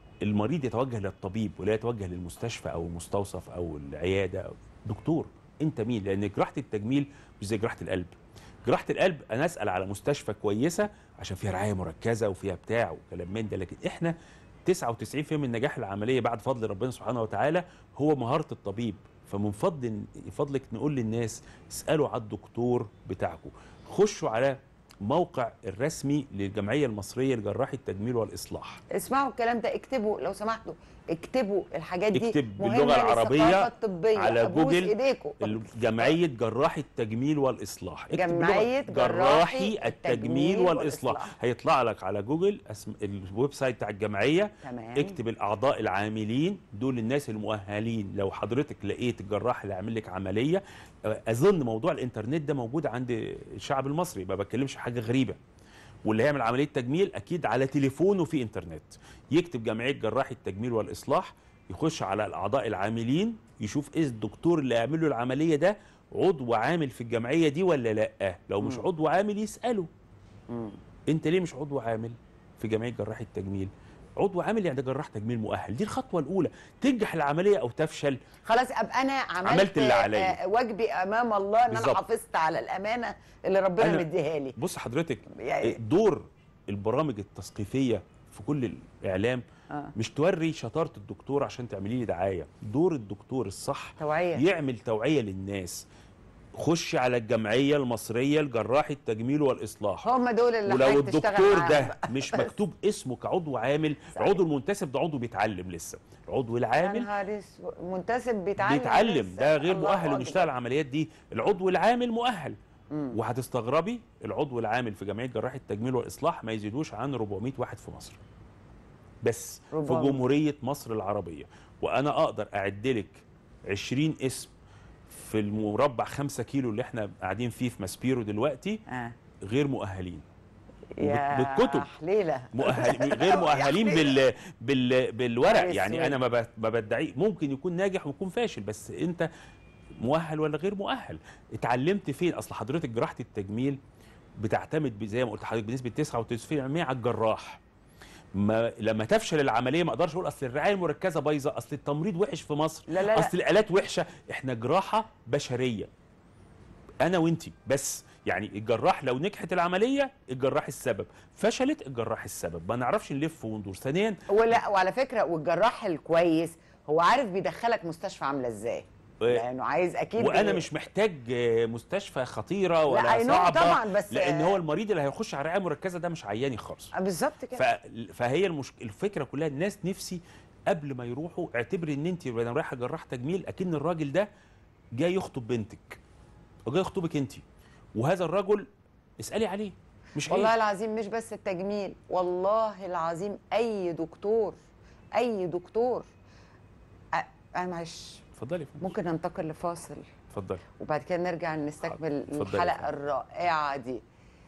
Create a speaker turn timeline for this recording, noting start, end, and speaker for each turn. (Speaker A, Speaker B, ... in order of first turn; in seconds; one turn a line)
Speaker A: 0.2-28.8
Speaker B: 28.9-36.1
Speaker A: 32.1-55.4
Speaker B: 38.1-41.3
Speaker B: 44.6-45.2
Speaker A: 56.0-69.9
Speaker B: 68.6-68.9
Speaker B: 70.5-70.8
Speaker A: 71.1-78.2
Speaker B: 78.4-84.6
Speaker A: 79.4-80.4
Speaker A: 81.7-82.0
Speaker A: 83.8-89.4
Speaker B: 85.3-85.8
Speaker A: 89.9-95.9
Speaker B: 94.0-94.4
Speaker A: 96.5-100.1
Speaker B: 100.0-102.5
Speaker A: 100.6-107.1
Speaker B: 104.1-104.4
Speaker B: 106.8-110.5
Speaker A: 108.6-112.6
Speaker A: 113.1-118.2
Speaker A: 119.2-124.5
Speaker B: 119.7-120.2
Speaker A: 125.1-128.8
Speaker B: 128.9-129.1
Speaker A: 129.4-130.2
Speaker B: 131.0-134.2
Speaker A: 131.0-131.9
Speaker A: 132.5-139.3
Speaker B: 135.4-136.2
Speaker A: 140.0-143.8
Speaker A: 144.4-147.6
Speaker A: 148.3-155.9
Speaker B: 152.9-153.3
Speaker A: 157.0-164.6
Speaker B: 164.3-170.7
Speaker A: 170.2-176.9
Speaker B: 172.9-174.6
Speaker B: 176.9-177.6
Speaker A: 177.5-184.3
Speaker A: 184.9-186.0
Speaker A: 186.7-187.4
Speaker A: 187.9-190.5
Speaker B: 190.2-194.6
Speaker B: 195.1-196.1
Speaker B: 197.1-198.2
Speaker A: 198.4-198.8
Speaker B: 198.8-200.1
Speaker A: 200.3-200.6
Speaker B: 200.8-204.0
Speaker A: 201.8-202.9